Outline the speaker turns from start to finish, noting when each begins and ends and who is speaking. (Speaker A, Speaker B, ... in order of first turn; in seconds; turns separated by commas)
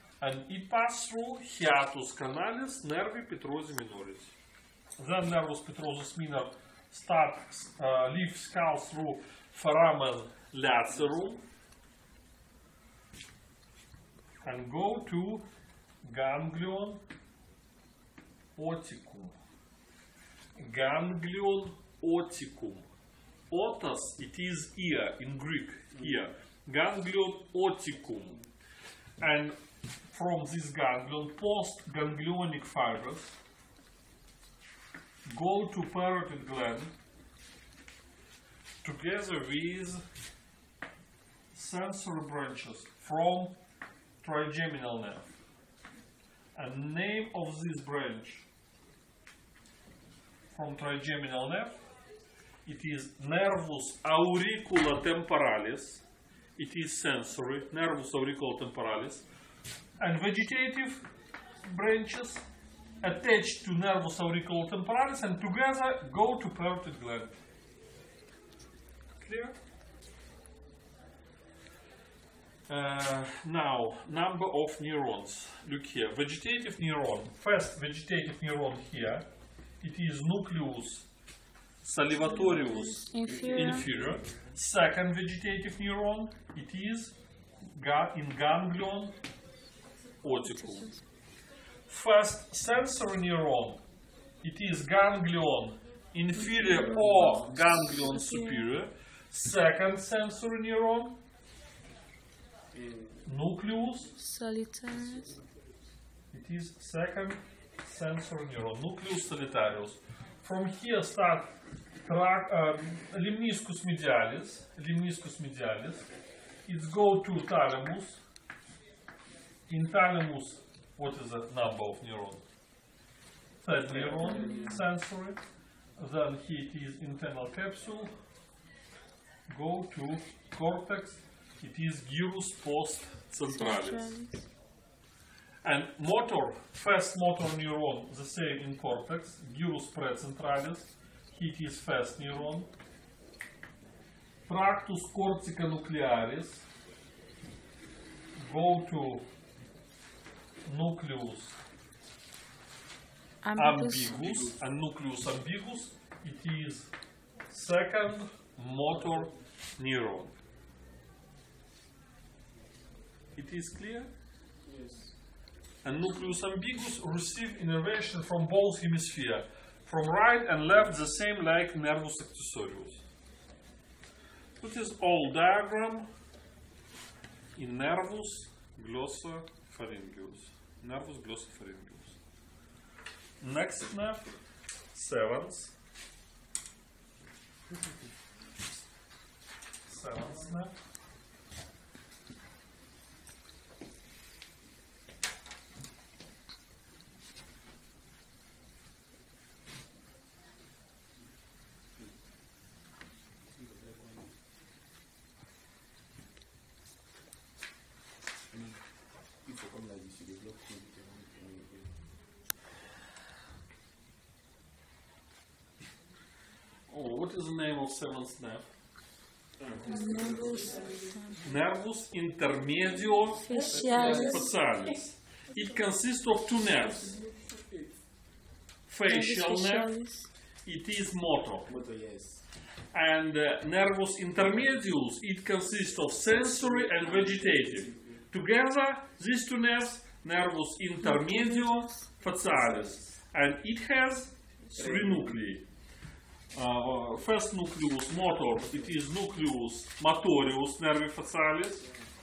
Speaker A: 0.2-4.3, Speaker A: 5.0-11.4, Speaker A: 14.4-15.4, Speaker A: 16.0-17.0, Speaker A: 18.6-19.4, Speaker A: 20.6-22.9, Speaker A: 23.5-28.4, Speaker A: 29.2-29.6, Speaker A: 30.1-33.3, Speaker A: 35.2-36.9, Speaker A: 38.8-40.0, Speaker A: 41.5-43.6, Speaker A: 44.2-45.3, Speaker A: 46.5-48.4, Speaker A: 50.5-51.8, Speaker A: 52.6-56.0, Speaker A: 56.6-59.2, Speaker A: 60.0-61.1, Speaker A: 61.6-62.4, Speaker A: 63.0-67.3, Speaker A: 69.2-69.5, Speaker A: 72.7-79.3, Speaker A: 79.8-81.1, Speaker A: 81.8-87.1, Speaker B: 82.4-83.9, Speaker C: 83.2-84.2, Speaker A: 87.7-89.2, Speaker A: 90.2-91.0, Speaker A: 91.9-93.8, Speaker A: 94.4-101.2, Speaker B: 96.5-98.7, Speaker C: 102.7-103.3, Speaker A: 103.2-104.1, Speaker B: 104.1-105.3, Speaker C: 105.0-105.4, Speaker A: 106.3-111.5, Speaker A: 112.0-116.1, Speaker A: 116.6-118.2, Speaker A: 119.7-122.4, Speaker A: 123.6-125.4, Speaker C: 123.8-124.9, Speaker B: 124.3-124.7, Speaker A: 126.0-128.1, Speaker A: 129.5-134.2, Speaker B: 133.5-134.4, Speaker A: 135.6-142.7, Speaker A: 144.5-146.7, Speaker A: 148.4-149.3, Speaker A: 150.6-151.6, Speaker B: 153.4-154.5, Speaker A: 153.6-156.9, Speaker A: 157.5-160.3, Speaker A: 163.4-164.1, Speaker C: 164.6-165.1, Speaker A: 165.8-173.0, Speaker A: 174.6-176.1, Speaker A: 177.6-182.2, Speaker A: 183.4-184.3, Speaker A: 184.9-185.8, Speaker A: 189.9-190.7, Speaker C: 203.5-204.3, Speaker C: 208.5-212.0, Speaker A: 216.9-218.7, Speaker C: 219.6-221.3, Speaker B: 219.9-221.4, Speaker A: 221.4-227.2, Speaker B: 223.4-224.4, Speaker C: 227.0-227.9, Speaker A: 228.9-230.0, Speaker B: 229.1-230.3, Speaker A: 230.6-231.7, Speaker C: 231.6-232.4, Speaker A: 232.9-245.7, Speaker C: 236.2-238.2, Speaker B: 241.1-241.8, Speaker C: 242.6-242.9, Speaker C: 244.7-245.4, Speaker A: 246.5-251.9, Speaker C: 248.6-248.9, Speaker C: 251.8-252.1